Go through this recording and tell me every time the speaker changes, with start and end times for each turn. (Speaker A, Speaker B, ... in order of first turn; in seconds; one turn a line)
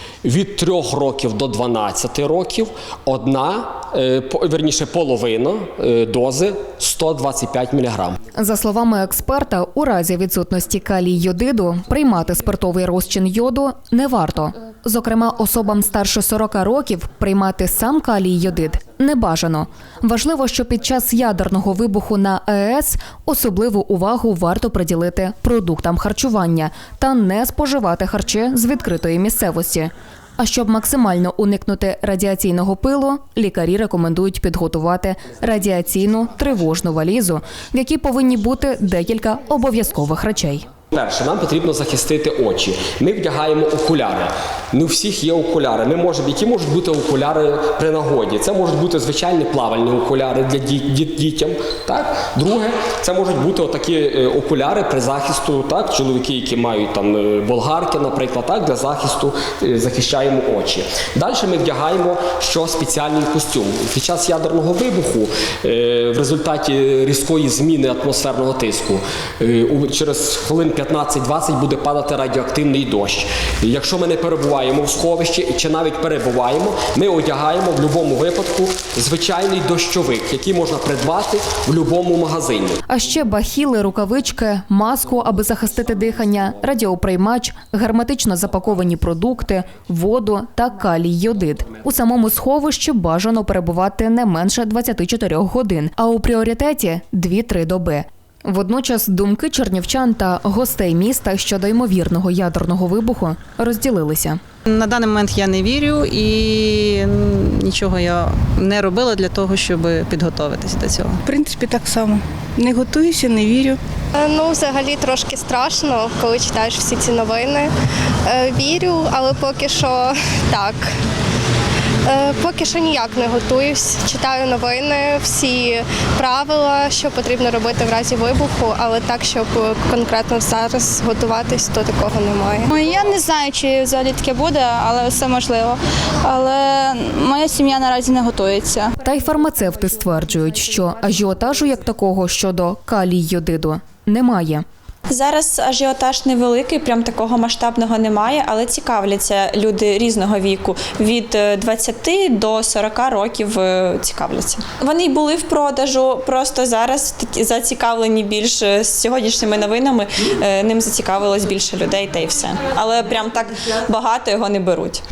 Speaker A: 0.2-8.2
Speaker B: 8.3-40.7
Speaker A: 40.9-82.8
Speaker B: 82.9-104.4
Speaker C: 104.7-111.2
Speaker D: 111.3-113.8
Speaker E: 114.1-117.7
Speaker E: 118.3-120.9
Speaker E: 122.0-132.7
Speaker F: 132.7-138.9
Speaker B: 139.0-144.6
Speaker G: 145.1-165.0